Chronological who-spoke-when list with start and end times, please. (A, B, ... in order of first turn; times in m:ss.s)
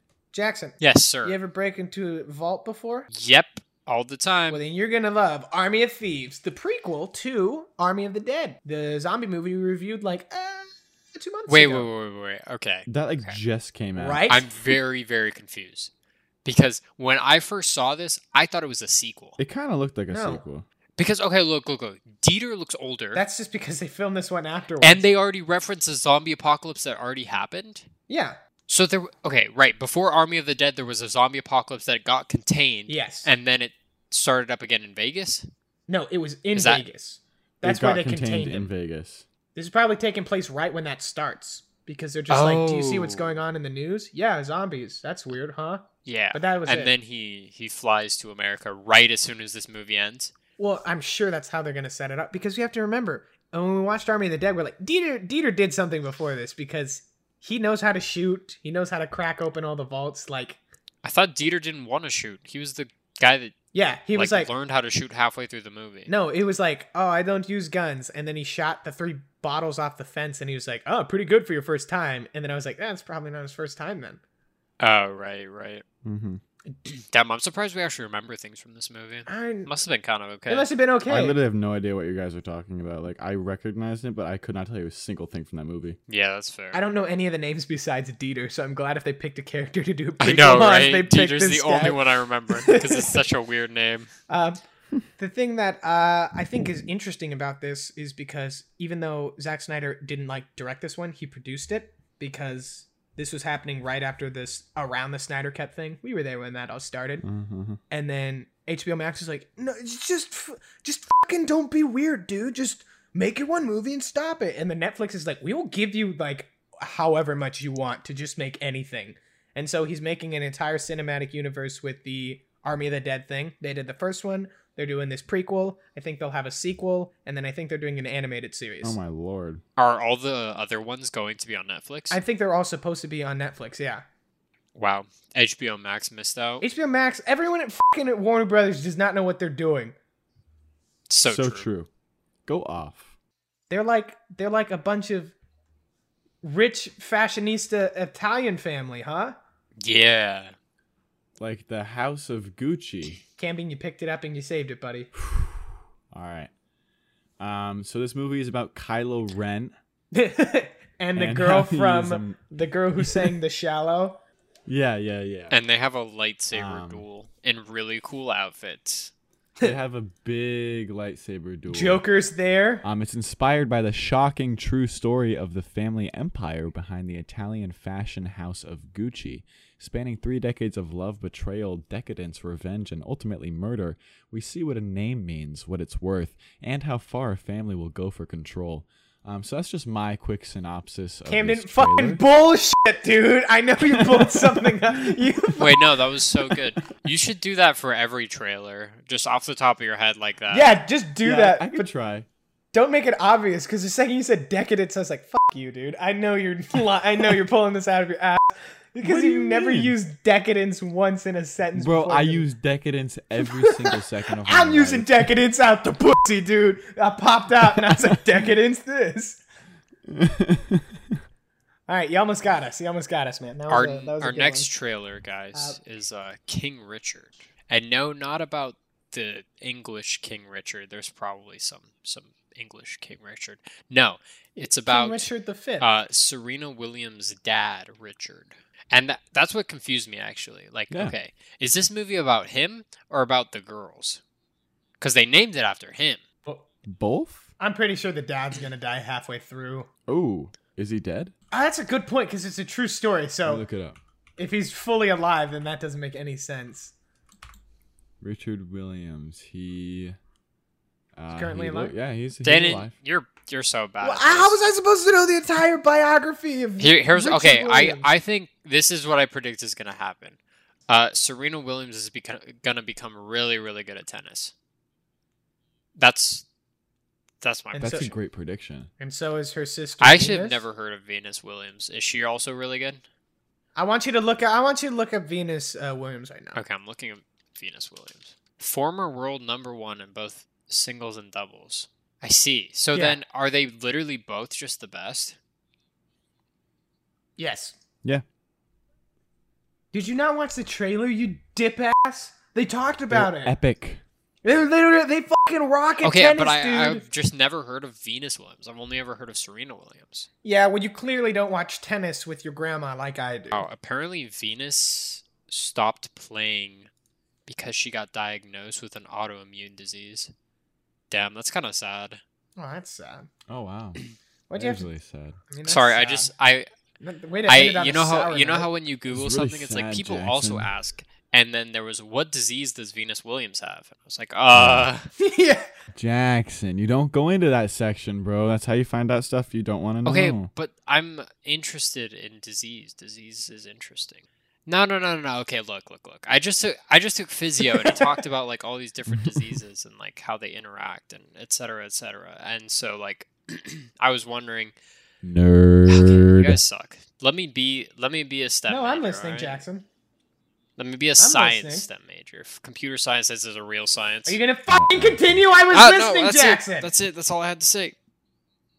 0:00.3-0:03.1 A
0:00.8-0:01.4 B
0:03.1-0:04.6 B
0:04.5-0:11.9 A
0:11.5-0:13.4 B
0:12.9-0:14.3 C
0:14.0-0:14.5 A
0:14.3-0:15.9 B
0:16.4-0:19.4 B
0:19.4-0:20.7 C
0:20.1-0:20.4 A
0:21.0-0:23.2 B
0:23.1-0:25.0 A
0:24.8-0:27.9 B
0:28.1-0:28.4 A
0:28.7-0:35.5 B
0:32.9-0:33.3 A
0:35.9-0:38.7 A
0:36.6-0:36.8 B
0:37.6-0:39.2 C
0:39.6-0:46.9 A
0:42.3-0:43.3 B
0:46.1-0:50.3 B
0:50.6-1:00.6 A
1:01.0-1:03.6 B
1:03.7-1:04.5 A
1:04.1-1:06.1 B
1:06.1-1:14.2 A
1:14.8-1:15.8 B
1:16.0-1:16.4 C
1:16.9-1:20.7 B
1:19.3-1:19.7 A
1:20.5-1:21.4 A
1:21.1-1:26.0 C
1:26.1-1:26.8 B
1:26.7-1:33.2 A
1:30.2-1:34.1 B
1:34.3-1:34.6 A
1:35.2-1:47.2 A
1:47.2-1:47.8 C
1:47.9-2:09.0 A
2:08.8-2:09.6 C
2:09.8-2:12.2 B
2:12.1-2:14.0 A
2:14.8-2:16.6 B
2:16.6-2:20.0 A
2:21.1-2:21.7 B
2:21.2-2:21.9 C
2:22.5-2:23.1 C
2:23.7-2:25.3 A
2:26.4-2:29.4 A
2:29.8-2:30.5 B
2:31.4-2:33.2 C
2:33.4-2:35.1 A
2:35.2-2:36.5 C
2:37.4-2:39.7 C
2:40.1-2:44.2 A
2:41.2-2:43.4 C
2:44.7-2:45.6 C
2:45.5-2:49.1 B
2:46.5-2:47.0 C
2:49.6-2:52.0 C
2:51.7-2:52.8 A
2:52.8-3:12.2 C
3:11.3-3:15.9 A
3:14.0-3:15.3 C
3:15.6-3:20.7 B
3:16.4-3:16.7 C
3:20.5-3:21.9 A
3:21.2-3:22.3 C
3:22.7-3:32.5 A
3:29.0-3:30.0 C
3:31.8-3:35.2 C
3:33.5-3:39.4 A
3:40.1-3:41.2 C
3:41.9-3:44.7 A
3:43.7-4:04.2 B
3:54.6-3:55.9 A
4:05.0-4:06.2 B
4:06.9-4:07.5 C
4:07.6-4:09.9 A
4:10.1-4:11.3 C
4:11.5-4:13.6 A
4:13.5-4:14.0 C
4:14.4-4:16.9 A
4:18.2-4:20.2 C
4:21.2-4:22.9 C
4:21.3-4:22.0 A
4:22.4-4:24.6 B
4:24.0-4:28.1 A
4:26.8-4:30.4 B
4:30.9-4:34.5 B
4:36.0-4:36.4 B
4:37.4-4:38.1 B
4:37.7-4:38.1 A
4:37.8-4:38.9 C
4:39.0-4:40.6 A
4:40.0-4:43.0 B
4:43.8-4:46.6 A
4:46.6-4:55.4 B
4:52.9-4:53.2 A
4:57.4-4:57.8 A
4:59.9-5:03.6 A
5:03.1-5:04.0 C
5:04.4-5:07.0 A
5:06.0-5:10.3 B
5:10.4-5:13.7 A
5:13.5-5:16.9 B
5:17.5-5:20.3 B
5:21.1-5:22.2 B
5:22.6-5:23.3 A
5:23.5-5:24.0 C
5:24.5-5:24.9 A
5:24.6-5:25.4 C
5:25.5-5:26.3 A
5:25.6-5:26.7 B
5:27.0-5:28.7 A
5:27.5-5:35.1 B
5:29.1-5:30.7 C
5:34.5-5:34.9 C
5:35.2-5:35.7 A
5:35.9-5:40.5 C
5:40.1-5:54.7 B
5:47.7-5:48.1 A
5:49.1-5:49.6 C
5:55.2-5:56.6 C
5:55.9-5:59.6 B
5:58.7-5:59.8 A
6:00.8-6:04.4 B
6:01.2-6:01.9 A
6:04.3-6:06.9 A
6:04.7-6:05.3 C
6:05.7-6:08.0 B